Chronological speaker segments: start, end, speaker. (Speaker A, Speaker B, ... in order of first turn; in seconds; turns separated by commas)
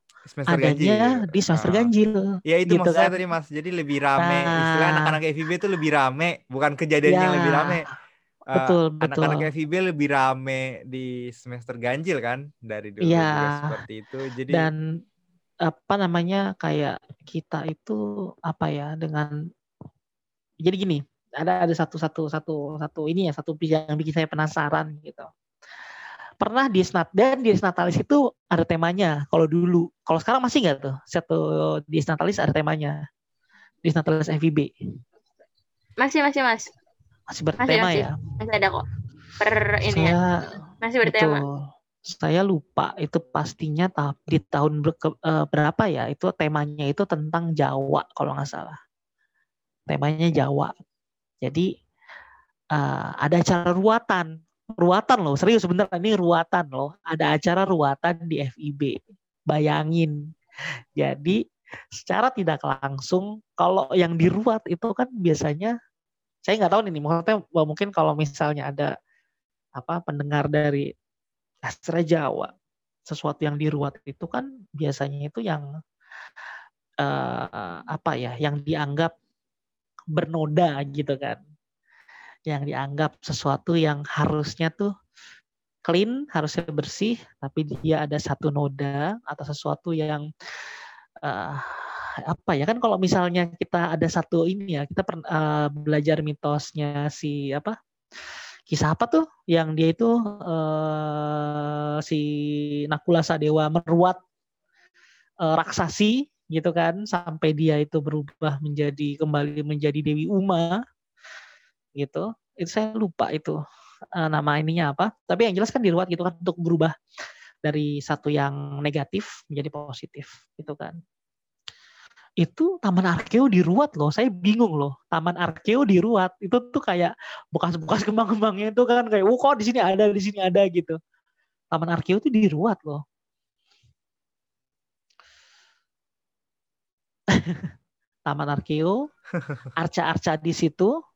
Speaker A: 0.2-1.9, Speaker B: 0.5-3.2, Speaker A: 2.5-7.8, Speaker B: 4.2-5.2, Speaker B: 7.0-7.8, Speaker A: 8.5-14.7, Speaker B: 8.5-9.4, Speaker B: 13.0-13.7, Speaker B: 14.5-14.8, Speaker B: 15.6-19.3, Speaker B: 20.6-25.3, Speaker B: 26.4-33.0, Speaker B: 33.8-34.7, Speaker C: 36.0-36.7, Speaker B: 37.3-38.1, Speaker C: 37.6-38.8, Speaker C: 39.4-40.1, Speaker B: 39.8-41.5, Speaker C: 40.8-41.4, Speaker B: 42.0-48.8, Speaker B: 49.9-50.7, Speaker B: 51.4-51.7, Speaker B: 52.7-60.2, Speaker B: 61.0-61.4, Speaker B: 61.9-65.7, Speaker B: 66.4-68.9, Speaker B: 69.8-70.9, Speaker B: 71.6-72.5, Speaker B: 73.1-75.7, Speaker B: 77.0-79.1, Speaker B: 80.1-81.4, Speaker B: 82.5-84.9, Speaker B: 85.9-97.8, Speaker B: 98.3-104.2, Speaker B: 105.4-110.8, Speaker B: 112.0-113.6, Speaker B: 114.1-116.9, Speaker B: 117.6-121.0, Speaker B: 122.4-131.0, Speaker B: 131.7-133.0, Speaker B: 137.3-137.7, Speaker B: 138.2-138.9, Speaker B: 139.8-140.9